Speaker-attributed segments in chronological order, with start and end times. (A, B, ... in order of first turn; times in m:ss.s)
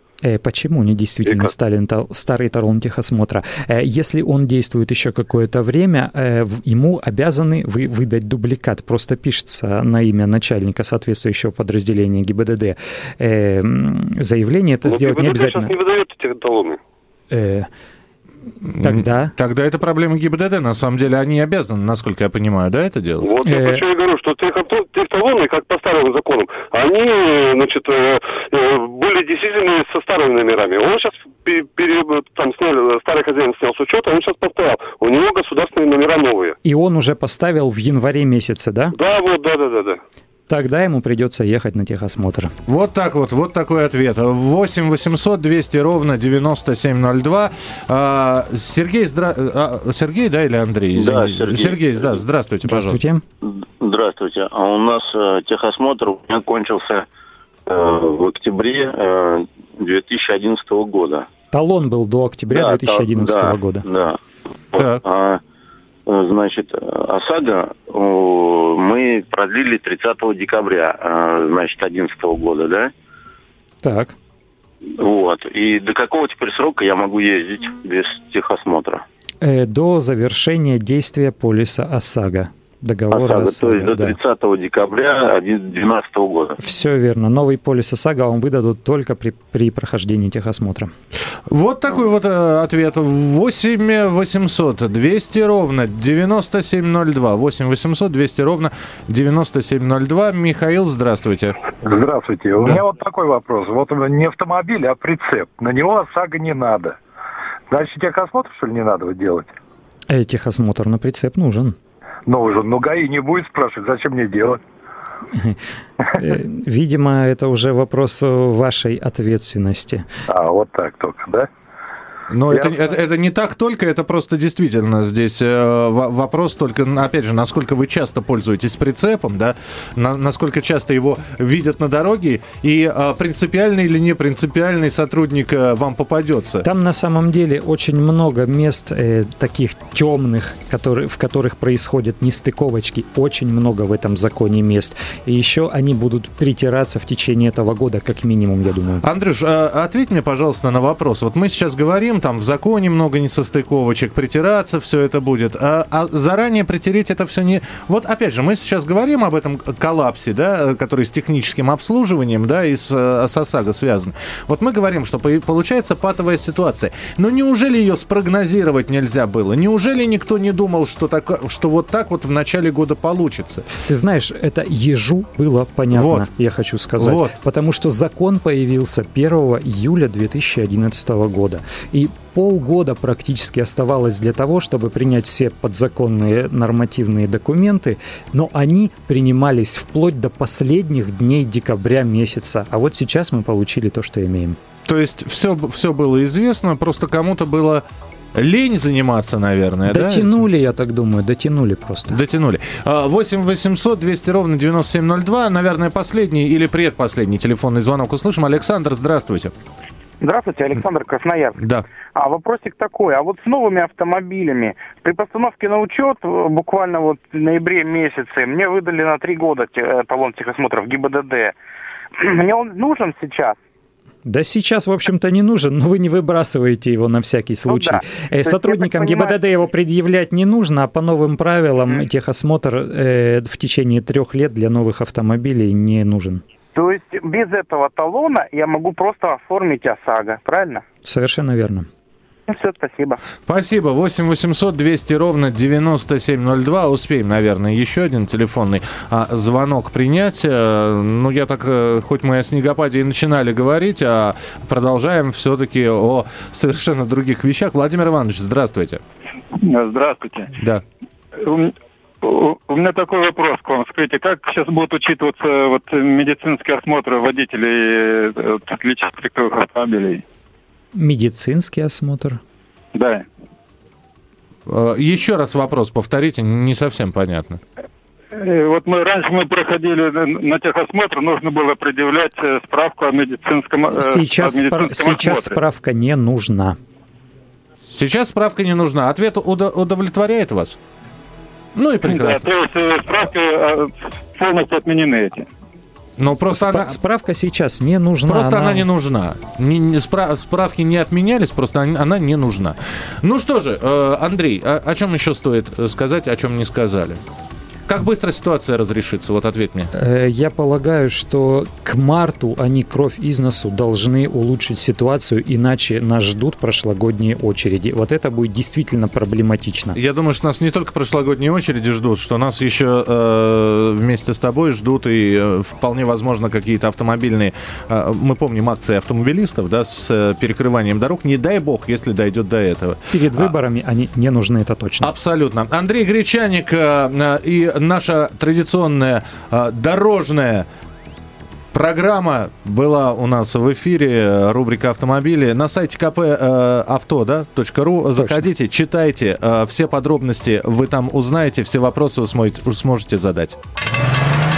0:00.2-0:15.7 A
0:14.8-0:16.8 B
0:17.3-0:17.7 A
0:18.7-0:23.3 C
0:18.8-0:19.3 A
0:23.2-0:36.5 B
0:23.4-0:23.8 A
0:36.6-0:39.0 A
0:38.9-0:40.0 B
0:40.5-0:42.5 A
0:42.7-0:53.0 C
0:50.9-0:52.2 D
0:52.6-0:53.2 A
0:53.4-0:57.0 D
0:57.7-1:01.3 D
1:01.5-1:03.8 A
1:02.5-1:04.2 D
1:04.7-1:05.4 D
1:04.8-1:05.0 C
1:06.1-1:12.9 D
1:13.8-1:14.1 A
1:15.0-1:19.0 D
1:19.4-1:24.2 A
1:23.1-1:26.5 D
1:26.6-1:30.9 A
1:31.5-1:41.6 C
1:41.8-1:47.0 E
1:47.7-1:49.5 E
1:50.1-1:51.8 A
1:52.3-1:54.6 E
1:56.2-2:00.0 A
2:00.3-2:01.5 E
2:02.3-2:16.6 C
2:16.6-2:29.0 A
2:29.0-2:53.7 C
2:53.8-3:14.6 A
2:55.9-2:56.2 C
2:57.0-2:57.3 C
3:14.8-3:17.8 C
3:18.3-3:20.4 C
3:19.8-3:22.2 A
3:22.1-3:29.5 C
3:30.2-3:31.5 F
3:31.6-3:31.8 C
3:32.1-3:41.5 F
3:42.2-3:43.6 F
3:44.2-3:56.4 A
3:47.7-3:49.4 F
3:56.7-4:00.8 F
4:01.0-4:01.9 A
4:02.5-4:03.2 F
4:03.5-4:19.0 C
4:19.6-4:20.5 G
4:21.4-4:30.2 G
4:30.9-4:32.4 A
4:32.9-4:33.3 G
4:34.7-4:37.6 C
4:38.4-4:45.6 G
4:43.9-4:46.8 A
4:47.9-4:50.8 C
4:51.8-4:52.5 C
4:52.0-4:55.5 G
4:56.2-4:57.0 C
4:56.5-4:58.8 A
4:58.3-5:07.2 C
5:07.9-5:09.9 C
5:09.9-5:20.0 A
5:19.9-5:33.5 C
5:33.1-5:35.1 A
5:35.0-5:40.6 C
5:41.7-5:53.6 C
5:48.2-5:48.4 A